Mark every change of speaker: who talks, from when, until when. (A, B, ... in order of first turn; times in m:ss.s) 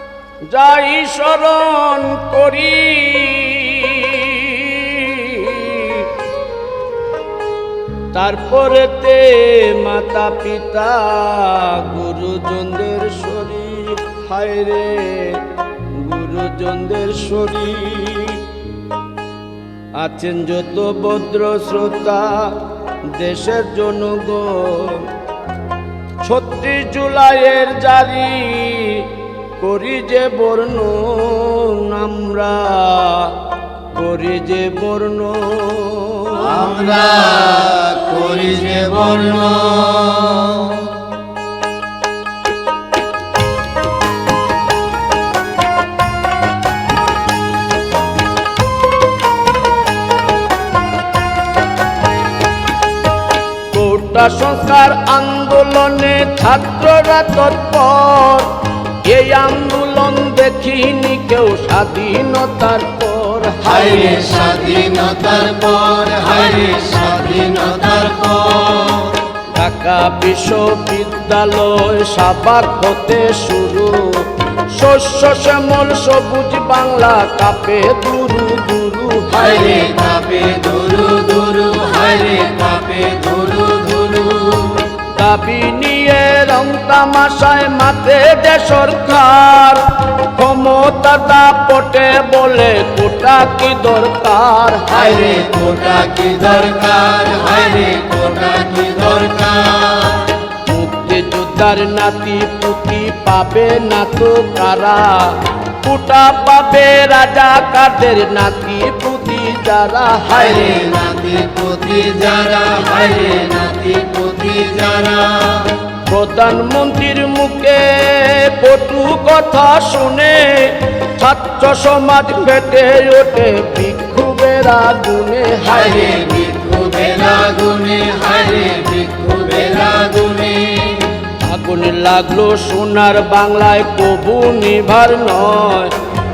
0:00.5-0:06.1 A
0:08.1-0:18.5 A
0:20.0-0:25.1 A
0:26.2-0:36.7 A
0:36.5-0:40.9 B
0:53.7-1:04.1 A
1:03.7-1:09.2 B
1:09.5-1:19.7 A
1:19.3-1:24.9 B
1:25.1-1:35.0 A
1:34.9-1:40.3 B
1:40.6-1:50.8 A
1:50.5-1:55.8 B
1:56.0-2:06.1 A
2:05.7-2:11.1 B
2:11.4-2:16.0 A